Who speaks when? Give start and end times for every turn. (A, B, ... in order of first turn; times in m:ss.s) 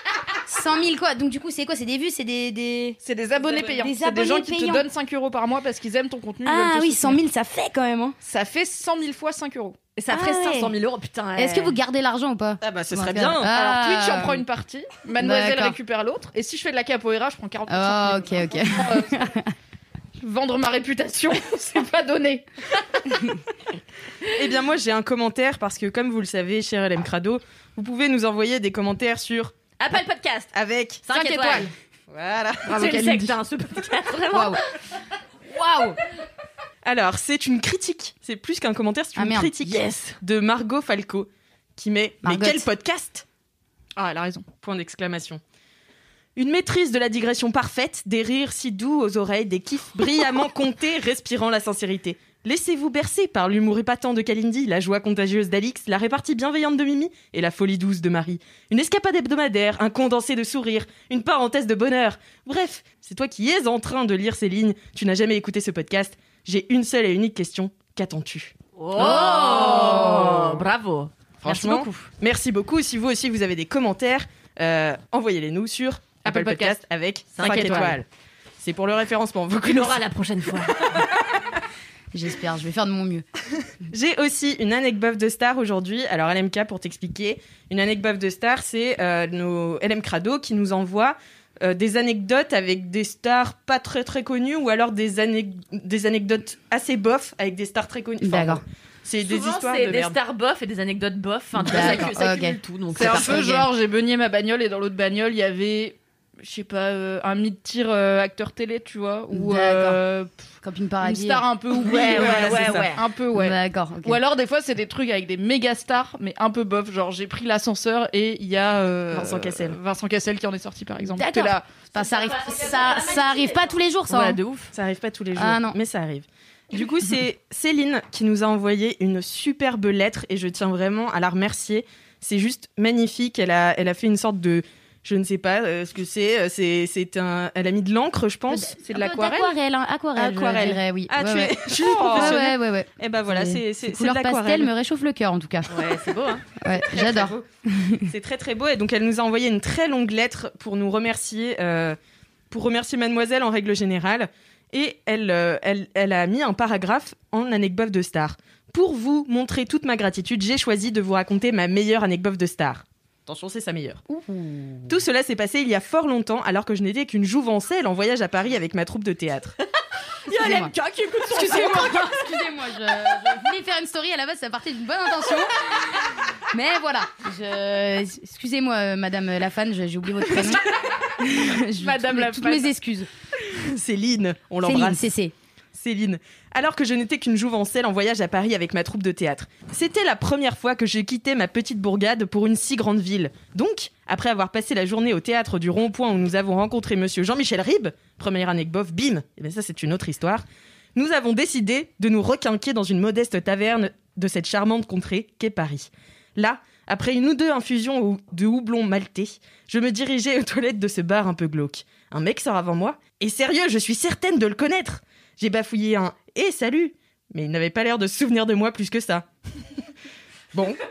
0:00.4-0:03.0 A
0:03.0-0:07.2 B
0:03.6-0:04.8 A
0:06.4-0:08.2 A
0:08.2-0:09.8 B
0:10.0-0:11.8 C
0:10.1-0:10.7 A
0:11.4-0:14.4 A
0:12.6-0:13.5 D
0:13.5-0:19.3 B
0:15.2-0:15.7 A
0:17.7-0:19.5 A
0:20.2-0:22.5 B
0:24.3-0:29.5 D
0:29.8-0:30.5 C
0:30.5-0:31.1 D
0:31.0-0:31.7 C
0:31.1-0:31.7 B
0:32.1-0:32.8 D
0:32.6-0:33.4 B
0:32.6-0:34.6 C
0:34.3-0:34.6 A
0:36.8-0:43.2 D
0:39.2-0:39.5 A
0:39.6-0:40.2 C
0:42.2-0:42.6 A
0:44.0-0:44.5 B
0:44.6-0:45.4 D
0:46.4-1:10.6 D
1:08.8-1:12.1 C
1:11.4-1:18.0 D
1:16.2-1:16.8 B
1:17.3-1:18.0 C
1:17.4-1:17.9 B
1:18.6-1:20.0 D
1:19.6-1:21.1 C
1:22.1-1:23.2 A
1:23.9-1:40.2 D
1:38.2-1:38.6 A
1:39.2-1:43.6 C
1:41.6-1:43.6 A
1:42.9-1:50.4 B
1:49.3-1:50.0 A
1:50.6-1:51.4 A
1:51.0-2:01.6 B
1:51.7-1:53.0 C
1:51.9-1:52.9 D
1:53.3-1:54.2 A
1:59.1-1:59.8 D
2:01.2-2:04.4 A
2:02.0-2:04.7 C
2:04.7-2:18.8 D
2:05.4-2:05.8 A
2:18.5-2:25.7 A
2:18.8-2:19.5 B
2:20.2-2:24.7 D
2:21.7-2:22.4 B
2:25.7-2:26.4 C
2:26.6-2:28.0 A
2:26.8-2:27.4 D
2:28.1-2:32.0 D
2:32.5-2:44.0 D
2:44.3-2:44.9 A
2:44.9-2:49.5 D
2:50.3-2:52.2 C
2:50.3-2:50.7 A
2:51.3-2:55.9 A
2:56.5-3:00.6 A
3:01.2-3:03.1 A
3:01.8-3:02.7 B
3:03.4-3:05.0 D
3:04.6-3:05.3 A
3:05.7-3:20.4 D
3:20.9-3:39.3 D
3:40.5-3:40.8 D